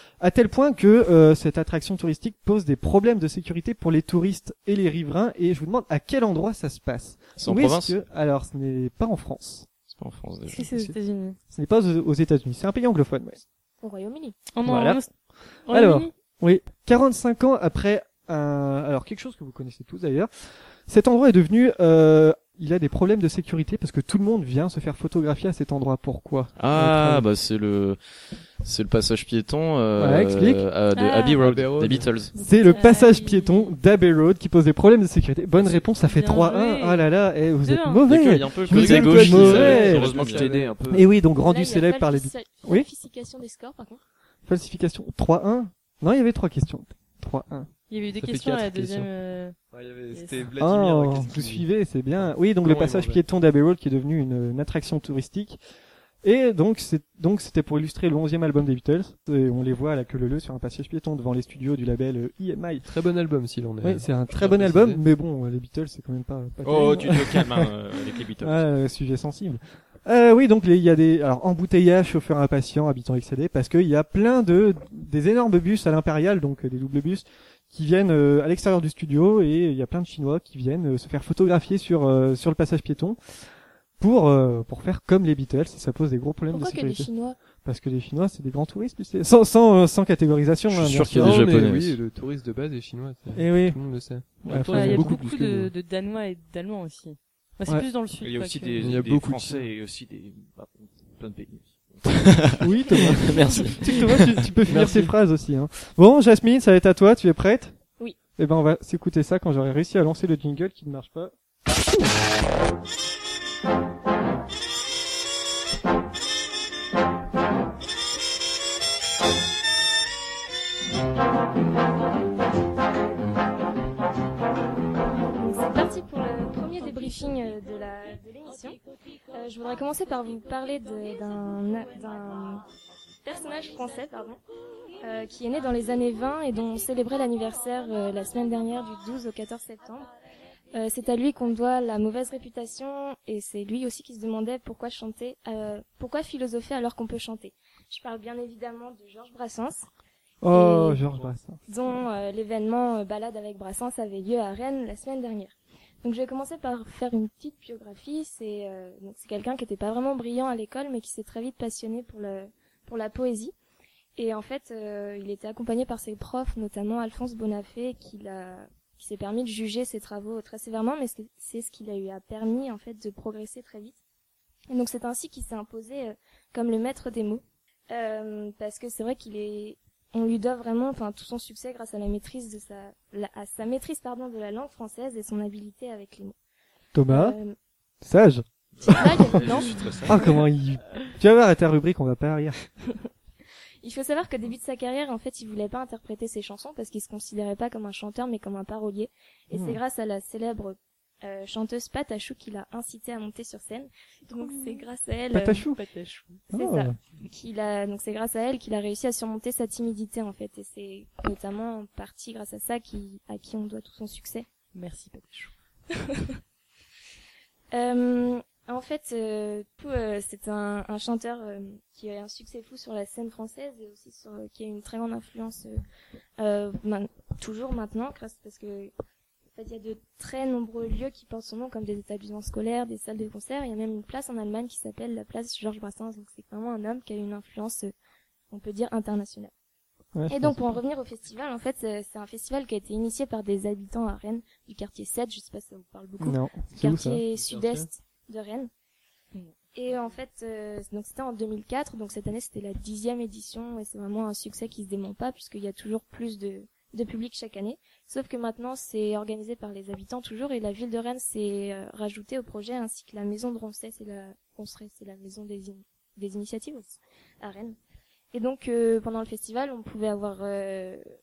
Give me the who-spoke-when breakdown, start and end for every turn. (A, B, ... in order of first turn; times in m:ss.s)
0:00.2-0:09.7 A
0:07.4-0:08.0 B
0:09.9-0:10.9 B
0:10.5-0:11.4 C
0:11.5-0:13.4 A
0:13.8-0:14.4 D
0:14.6-0:15.1 C
0:14.6-0:15.0 A
0:15.7-0:16.1 C
0:15.7-0:20.3 A
0:20.9-0:27.2 A
0:26.6-0:28.0 B
0:28.6-0:32.3 B
0:30.0-0:30.6 A
0:30.9-0:31.4 C
0:31.4-0:32.2 E
0:32.3-0:40.1 A
0:32.4-0:32.9 D
0:32.7-0:33.8 C
0:36.0-0:38.1 C
0:38.1-0:40.5 B
0:38.7-0:40.7 E
0:39.4-0:41.1 F
0:40.9-0:42.9 A
0:41.4-0:44.0 D
0:44.5-0:47.7 A
0:47.9-0:49.6 C
0:48.2-0:49.1 E
0:49.7-0:51.7 E
0:50.1-0:50.5 C
0:50.6-0:55.6 A
0:52.6-0:53.2 E
0:56.2-1:02.9 A
1:02.8-1:05.0 E
1:03.8-1:07.7 A
1:06.6-1:08.7 F
1:08.4-1:23.2 A
1:24.0-1:31.5 A
1:26.5-1:27.4 D
1:30.7-1:32.0 B
1:31.1-1:35.7 E
1:33.4-1:35.2 A
1:34.7-1:38.8 C
1:38.2-1:42.2 F
1:38.8-1:39.7 E
1:42.1-1:44.4 B
1:42.6-1:47.8 A
1:44.6-1:45.1 E
1:48.4-1:51.3 A
2:05.4-2:08.8 D
2:09.3-2:12.6 D
2:13.2-2:14.4 D
2:15.0-2:20.1 D
2:20.7-2:29.9 D
2:30.4-2:31.6 A
2:30.5-2:31.0 D
2:31.7-2:43.5 D
2:44.2-2:54.0 D
2:54.7-3:06.4 D
3:06.9-3:07.4 A
3:07.1-3:07.6 D
3:08.0-3:12.6 A
3:08.8-3:10.4 F
3:08.9-3:09.8 D
3:13.8-3:25.6 D
3:19.5-3:19.8 A
3:24.3-3:24.9 C
3:25.3-3:25.8 A
3:25.7-3:26.4 C
3:26.5-3:27.0 A
3:26.5-3:34.5 D
3:34.7-3:35.5 C
3:37.7-3:45.8 D
3:46.4-3:48.9 D
3:49.6-3:57.9 D
3:58.5-3:59.5 D
4:00.2-4:00.8 A
4:00.3-4:08.7 D
4:06.2-4:07.2 A
4:07.6-4:07.8 E
4:09.8-4:27.8 D
4:28.3-4:31.0 D